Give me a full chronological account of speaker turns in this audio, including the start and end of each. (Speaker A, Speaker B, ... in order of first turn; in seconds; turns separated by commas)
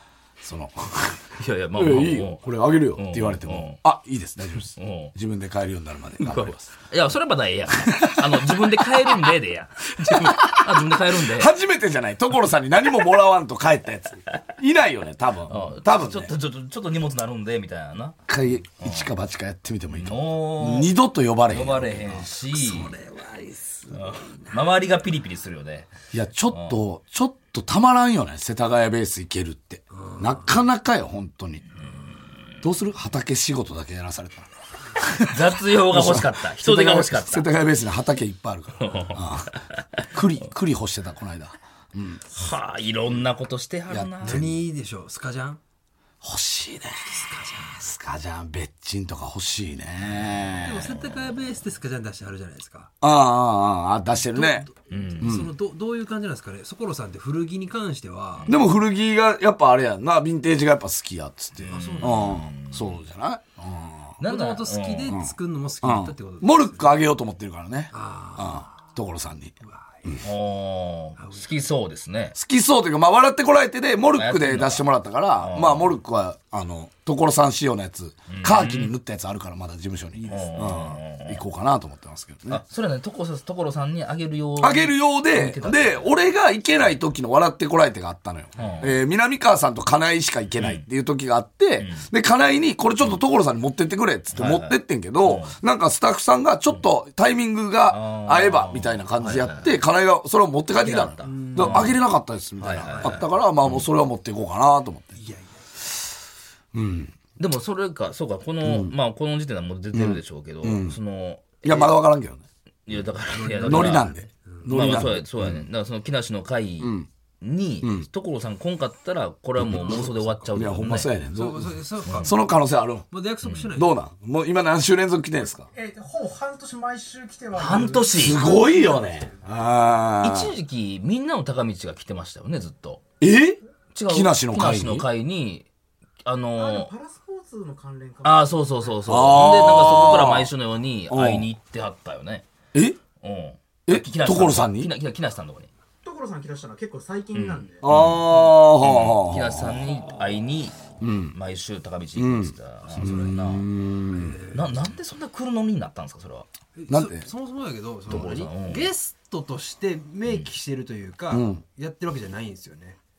Speaker A: 0.4-6.7, Speaker B: 1.4-3.8, Speaker B: 4.7-5.2, Speaker B: 6.2-11.5, Speaker A: 7.7-9.3, Speaker A: 10.1-16.3, Speaker B: 15.5-18.2, Speaker A: 18.3-22.3, Speaker B: 18.8-19.1, Speaker B: 19.9-20.9, Speaker B: 21.5-23.0, Speaker C: 22.5-24.6, Speaker B: 23.9-25.9, Speaker A: 26.1-31.6, Speaker B: 26.5-26.8, Speaker C: 30.0-30.5, Speaker A: 32.6-42.2, Speaker B: 35.3-37.6, Speaker B: 38.8-40.0, Speaker B: 42.2-44.5, Speaker A: 43.9-44.6, Speaker C: 44.2-45.6, Speaker A: 46.2-51.0, Speaker C: 47.2-47.8, Speaker B: 50.1-50.5, Speaker C: 50.6-52.9, Speaker A: 53.0-54.7, Speaker C: 54.2-58.5, Speaker B: 54.9-55.4, Speaker A: 55.2-55.5, Speaker B: 58.4-58.7, Speaker A: 58.5-64.1, Speaker B: 61.6-63.0, Speaker C: 61.7-62.4, Speaker B: 64.2-65.2, Speaker C: 64.2-66.9, Speaker A: 65.1-69.5, Speaker C: 67.9-68.7, Speaker C: 69.7-70.1, Speaker B: 70.2-72.4, Speaker C: 71.2-71.5, Speaker A: 72.3-82.6, Speaker B: 74.1-76.0, Speaker B: 78.3-78.9, Speaker C: 80.2-80.5, Speaker B: 80.2-81.4, Speaker B: 82.5-86.2, Speaker A: 84.6-105.2, Speaker B: 88.6-88.9, Speaker B: 90.5-90.8, Speaker B: 91.8-92.1, Speaker B: 94.3-95.6, Speaker B: 97.9-99.8, Speaker B: 100.8-102.0, Speaker C: 100.8-102.0, Speaker B: 102.6-103.9, Speaker C: 105.2-105.6, Speaker A: 106.7-107.1, Speaker B: 107.4-112.0, Speaker A: 108.6-109.0, Speaker A: 109.9-111.0, Speaker A: 111.6-112.4, Speaker B: 112.9-114.1, Speaker C: 113.3-114.7, Speaker A: 113.6-115.7, Speaker B: 114.7-121.2, Speaker A: 116.8-117.1, Speaker A: 117.8-118.1, Speaker A: 119.6-123.1, Speaker C: 121.3-122.4, Speaker B: 122.1-122.3, Speaker C: 123.1-123.9, Speaker B: 123.4-123.7, Speaker A: 123.7-125.7, Speaker D: 125.8-129.2, Speaker B: 127.5-128.4, Speaker A: 128.2-130.5, Speaker B: 130.2-133.0, Speaker A: 133.2-135.1, Speaker B: 133.9-135.7, Speaker B: 136.2-136.9, Speaker D: 136.6-138.9, Speaker B: 138.2-142.5, Speaker A: 139.1-140.5, Speaker A: 141.1-141.5, Speaker A: 142.7-143.0, Speaker B: 143.2-145.7, Speaker A: 143.9-144.9, Speaker D: 146.0-147.8, Speaker B: 147.3-153.7, Speaker A: 147.8-149.8, Speaker A: 151.0-151.3, Speaker A: 152.2-154.4, Speaker C: 152.9-153.3, Speaker C: 154.1-154.7, Speaker B: 154.5-156.5, Speaker C: 156.8-163.0, Speaker A: 156.9-157.3, Speaker B: 158.1-158.9, Speaker A: 161.3-161.6